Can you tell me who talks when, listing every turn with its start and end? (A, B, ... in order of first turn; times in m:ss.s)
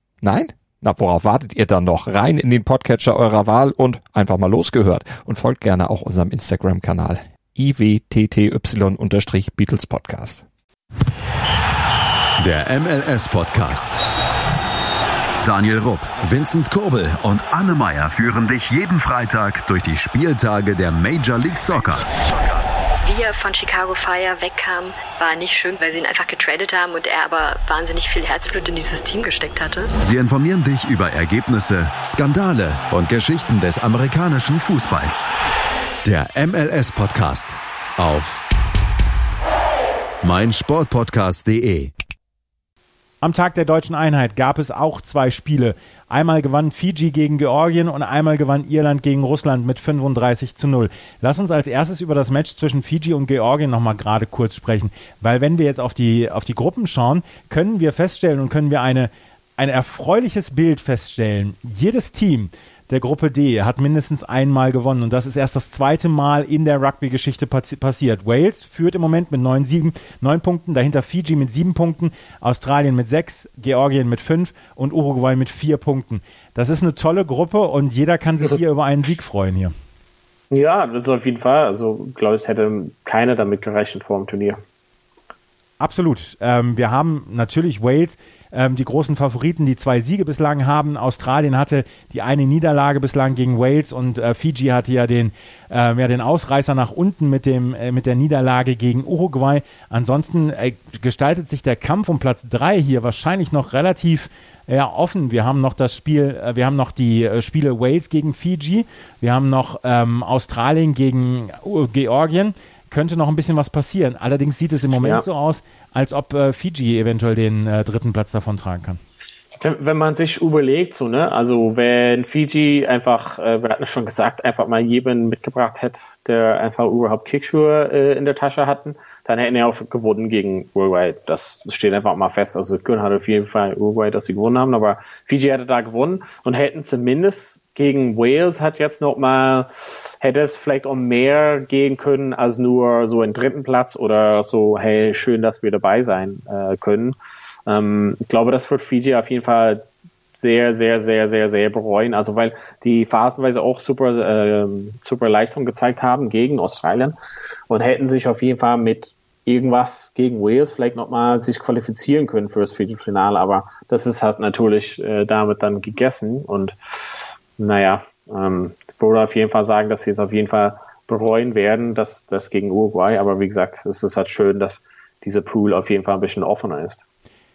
0:00.2-0:10.4 A
0:12.4-0:14.0 B
0:15.4-0:22.1 B
0:23.0-0:29.9 C
0:30.0-0:35.3 B
0:36.0-0:38.4 B
0:40.2-0:41.9 B
0:43.2-1:19.7 D
1:20.5-1:24.6 E
1:25.8-1:59.0 D
1:55.0-1:55.2 E
1:59.6-2:19.7 E
2:20.2-2:27.2 E
2:27.7-2:29.8 E
2:30.4-2:37.2 E
2:37.7-2:46.8 E
2:47.6-2:57.0 E